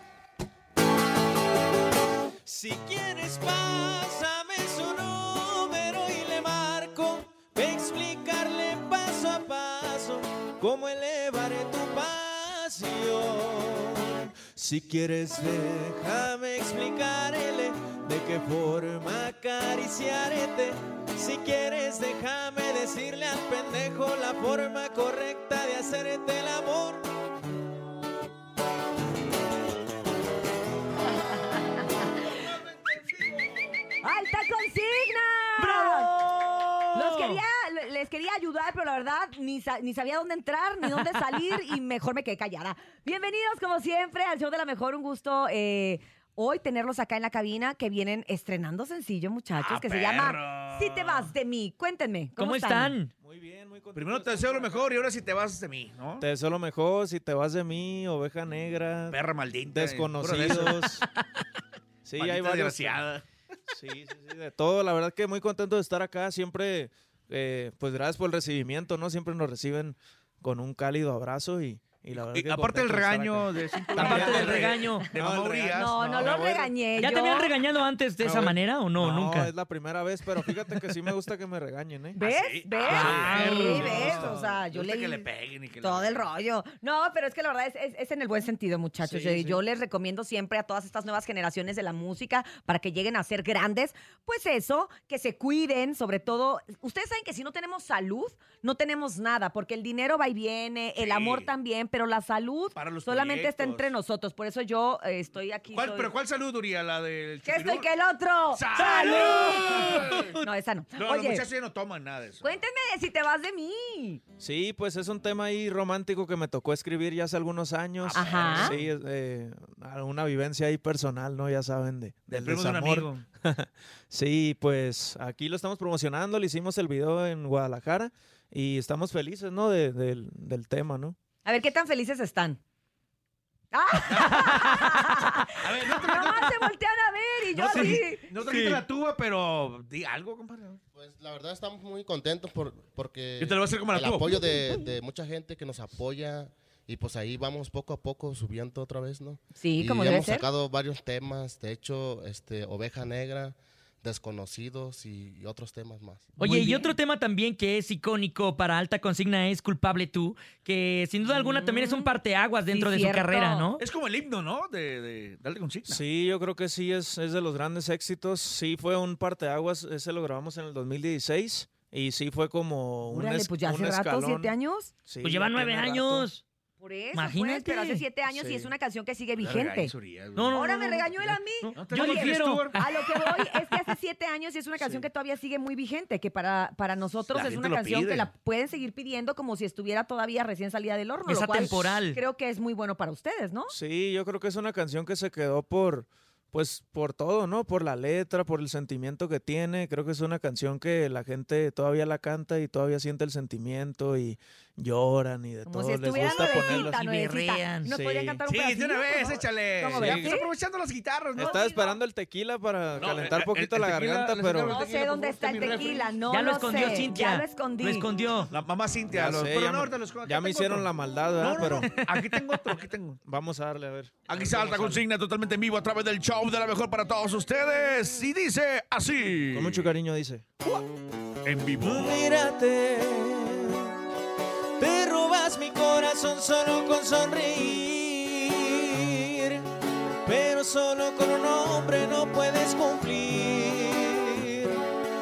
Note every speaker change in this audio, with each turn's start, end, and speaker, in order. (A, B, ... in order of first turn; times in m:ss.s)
0:02.4-0:27.1 A
0:34.0-0:36.1 B
0:35.6-0:37.4 C
0:36.9-0:53.0 B
0:49.6-0:51.3 D
0:52.4-0:53.1 C
0:53.2-0:55.0 A
0:53.9-0:56.3 D
0:56.2-1:01.1 A
0:59.1-1:01.0 D
1:02.0-1:03.0 A
1:02.2-1:03.2 D
1:03.7-1:16.7 A
1:12.1-1:16.2 D
1:13.9-1:15.1 C
1:15.7-1:17.6 B
1:17.0-1:19.5 C
1:18.2-1:22.2 A
1:22.2-1:25.3 B
1:22.2-1:26.2 D
1:22.8-1:23.9 C
1:22.9-1:24.5 A
1:25.8-1:46.1 B
1:29.0-1:29.6 A
1:41.0-1:41.5 D
1:42.8-1:43.9 D
1:45.7-1:47.9 D
1:47.4-1:51.5 B
1:48.5-1:50.4 D
1:48.8-1:50.3 C
1:51.0-1:52.5 D
1:52.4-1:54.2 B
1:54.4-2:11.2 A
1:58.0-1:58.9 D
1:58.1-1:58.8 B
2:02.3-2:03.2 D
2:11.4-2:12.6 B
2:13.7-2:18.4 B
2:14.1-2:16.6 D
2:17.5-2:20.8 D
2:18.4-2:18.8 C
2:21.0-2:36.2 E
2:23.4-2:24.6 D
2:29.6-2:30.5 B
2:36.4-2:43.8 C
2:36.4-2:36.9 B
2:41.3-2:42.2 B
2:42.7-2:43.7 B
2:43.8-2:46.0 D
2:45.9-2:54.5 A
2:53.1-2:54.9 B
2:55.1-2:56.3 A
2:55.2-2:56.4 C
2:56.8-2:59.9 B
2:57.1-2:58.0 C
2:58.3-2:58.7 A
2:59.4-3:01.1 D
3:00.4-3:03.6 C
3:00.5-3:13.7 B
3:01.7-3:02.8 D
3:07.3-3:08.3 D
3:11.3-3:12.2 C
3:13.7-3:27.0 A
3:25.7-3:30.5 B
3:26.4-3:28.0 C
3:27.9-3:28.4 A
3:28.5-3:31.6 D
3:30.0-3:30.2 A
3:31.4-3:34.8 A
3:31.4-3:32.0 B
3:33.0-3:36.2 D
3:34.7-3:38.1 B
3:36.3-3:38.5 C
3:38.4-3:43.2 D
3:39.1-3:41.9 A
3:43.3-3:45.0 A
3:44.3-3:49.9 D
3:49.5-3:50.5 A
3:51.4-3:52.2 D
3:51.8-3:54.0 A
3:54.8-3:59.6 A
4:00.2-4:04.8 A